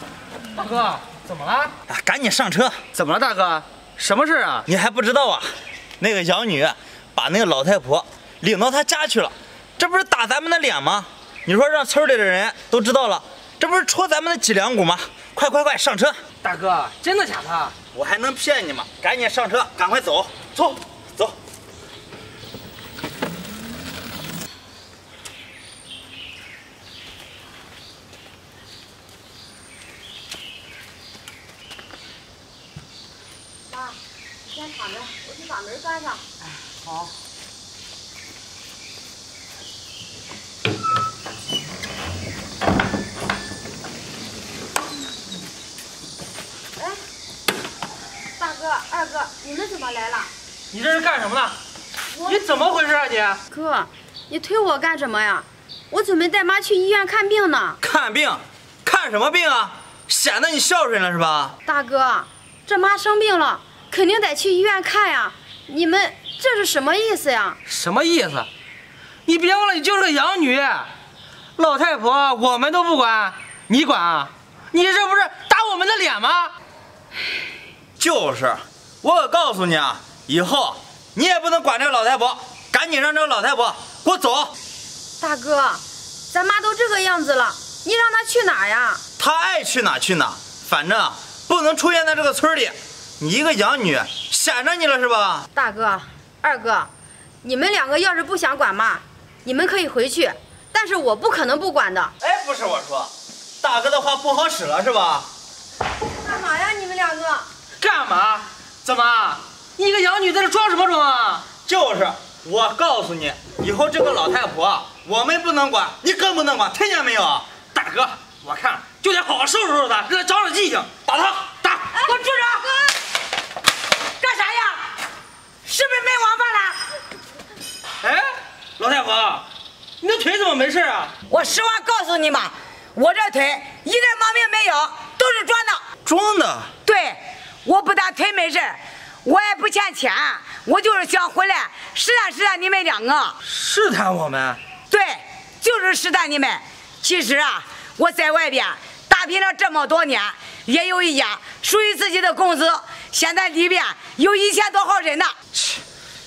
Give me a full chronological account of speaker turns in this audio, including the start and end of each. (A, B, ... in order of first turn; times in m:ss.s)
0:00.5-0:01.7 A
0:01.9-0:02.8 B
0:02.9-0:04.6 A
0:04.6-0:16.2 B
0:16.4-0:17.7 A
0:17.9-0:21.4 B
0:33.7-0:36.2 C
0:48.4-0:50.3 C
0:50.7-0:51.6 A
0:52.2-0:53.4 A
0:53.5-0:57.8 C
0:57.8-1:01.5 B
1:01.6-1:07.6 C
1:07.6-1:08.5 A
1:09.2-1:10.9 A
1:11.6-1:16.5 A
1:18.0-1:24.5 B
1:25.2-1:29.0 C
1:29.2-1:35.5 B
1:35.5-1:36.9 C
1:37.4-1:42.1 C
1:42.2-1:43.1 B
1:43.6-1:45.3 B
1:46.2-1:47.5 C
1:47.8-1:51.4 A
1:51.6-1:57.5 B
1:57.7-2:02.0 A
2:01.9-2:02.8 D
2:04.2-2:04.8 D
2:05.6-2:06.8 D
2:08.0-2:09.4 A
2:10.0-2:11.1 A
2:11.3-2:15.8 D
2:16.0-2:16.7 A
2:16.8-2:23.3 D
2:23.4-2:24.6 A
2:24.9-2:35.3 D
2:35.5-2:35.8 B